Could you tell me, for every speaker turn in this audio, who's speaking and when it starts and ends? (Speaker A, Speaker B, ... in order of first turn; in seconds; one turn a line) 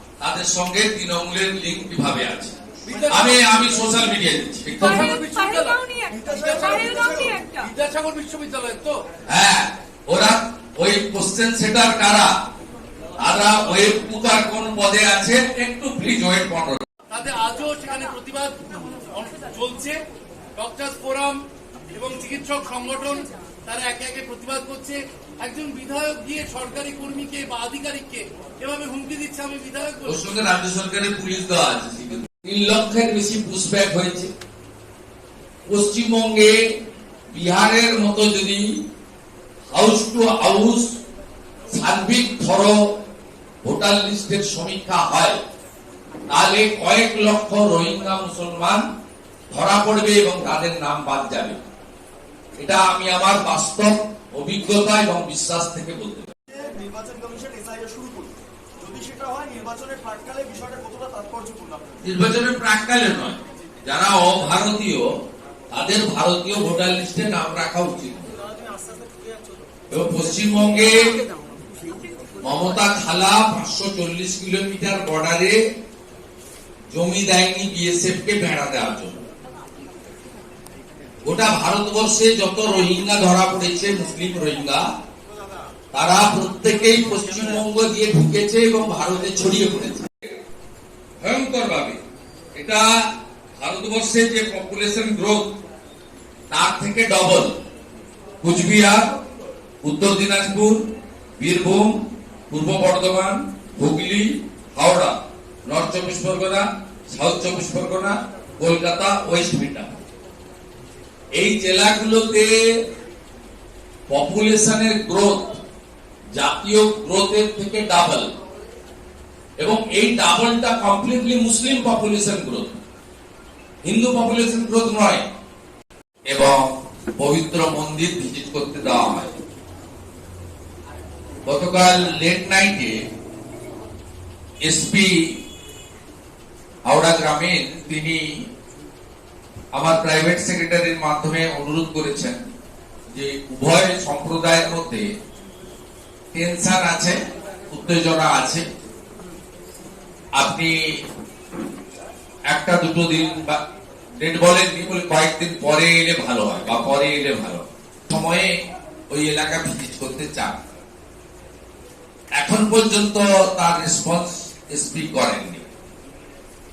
Speaker A: 0.2-2.5
Speaker B: 2.9-3.3
Speaker A: 3.1-5.2
Speaker B: 4.8-9.0
Speaker C: 6.2-7.3
Speaker A: 9.3-12.3
Speaker A: 13.2-16.9
Speaker B: 17.1-20.0
Speaker B: 20.6-21.4
Speaker B: 21.9-30.2
Speaker A: 30.0-34.3
Speaker A: 35.7-36.7
Speaker A: 37.3-38.7
Speaker A: 39.7-41.0
Speaker A: 41.7-42.8
Speaker A: 43.6-45.4
Speaker A: 46.3-48.8
Speaker A: 49.5-51.6
Speaker A: 52.6-56.3
Speaker C: 56.5-62.0
Speaker A: 62.0-65.1
Speaker A: 65.7-68.3
Speaker C: 68.6-69.4
Speaker A: 69.9-71.2
Speaker A: 72.4-75.6
Speaker A: 76.9-79.2
Speaker A: 81.2-84.8
Speaker A: 85.9-90.3
Speaker A: 91.2-92.0
Speaker A: 92.5-93.0
Speaker A: 93.6-95.5
Speaker A: 96.5-97.5
Speaker A: 98.4-99.1
Speaker A: 99.8-100.8
Speaker A: 101.4-102.0
Speaker A: 102.5-105.1
Speaker A: 105.7-109.9
Speaker A: 111.3-112.6
Speaker A: 114.1-115.5
Speaker A: 116.3-118.3
Speaker A: 119.6-122.8
Speaker A: 123.8-125.2
Speaker A: 126.3-129.3
Speaker A: 131.4-133.0
Speaker A: 134.6-135.3
Speaker A: 136.8-138.2
Speaker A: 139.7-142.4
Speaker A: 143.1-145.1
Speaker A: 146.3-147.2
Speaker A: 147.7-148.6
Speaker A: 150.4-150.7
Speaker A: 152.5-153.6
Speaker A: 154.2-158.5
Speaker A: 159.1-160.7
Speaker A: 162.4-165.7